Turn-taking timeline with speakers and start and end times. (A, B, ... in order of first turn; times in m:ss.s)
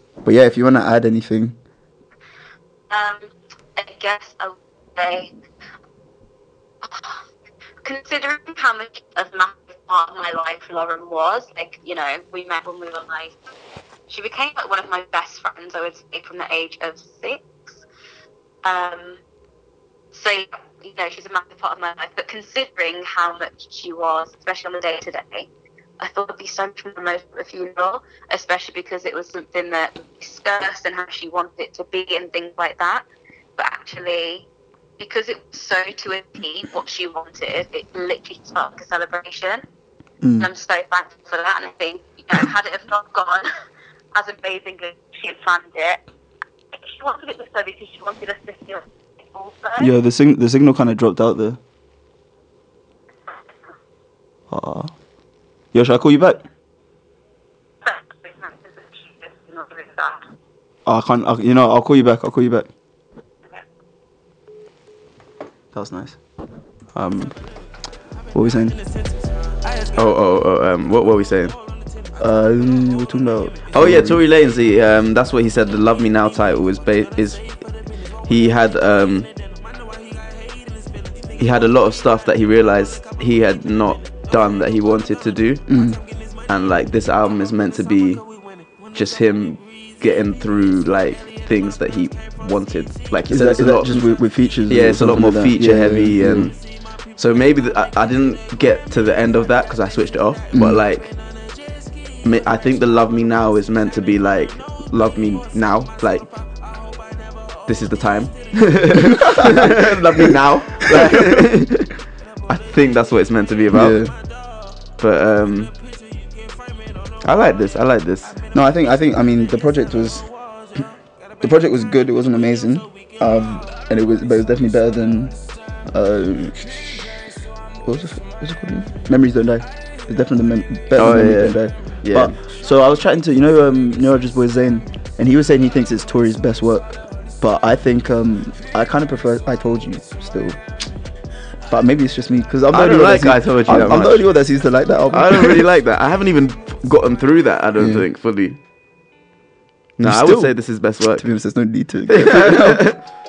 0:00.2-0:01.6 A
0:02.9-0:05.3 B
0:06.8-0:07.2 B
0:07.8-0:13.3 B
0:14.1-0:17.8 B
0:18.6-0:19.2 B
0:20.1-0:25.5 B
0:26.0-0:33.0 B
0:33.6-0:34.4 B
0:35.0-0:39.6 B
0:40.2-0:40.5 A
0:40.4-0:43.5 B
0:44.1-0:46.0 B
0:46.7-0:49.9 B
0:49.8-0:51.6 A
0:54.5-0:54.9 A
0:55.7-0:56.4 A
0:57.8-1:00.2 B
1:00.8-1:02.7 A
1:05.7-1:06.2 A
1:06.9-1:07.3 A
1:08.3-1:08.8 A
1:09.9-1:11.6 C
1:12.2-1:14.2 A
1:13.7-1:17.5 C
1:18.2-1:19.3 C
1:21.4-1:25.6 C
1:25.7-1:26.0 A
1:26.5-1:28.2 C
1:28.9-1:34.1 C
1:33.3-1:36.5 A
1:34.7-1:36.6 C
1:37.2-1:41.1 C
1:40.5-1:40.8 A
1:42.2-1:46.3 C
1:47.6-1:51.9 C
1:49.1-1:50.3 A
1:50.8-1:51.4 A
1:52.5-1:54.0 C
1:53.7-1:54.1 A
1:55.0-1:55.7 C
1:57.2-1:58.3 C
1:58.5-2:00.2 A
2:01.4-2:05.3 A
2:05.9-2:06.8 A
2:07.8-2:20.6 A
2:11.0-2:12.4 C
2:21.7-2:25.6 A
2:22.7-2:24.3 C
2:25.1-2:28.6 C
2:27.8-2:28.0 A
2:30.0-2:31.2 C
2:30.0-2:30.5 A
2:31.1-2:32.8 A
2:32.1-2:33.0 C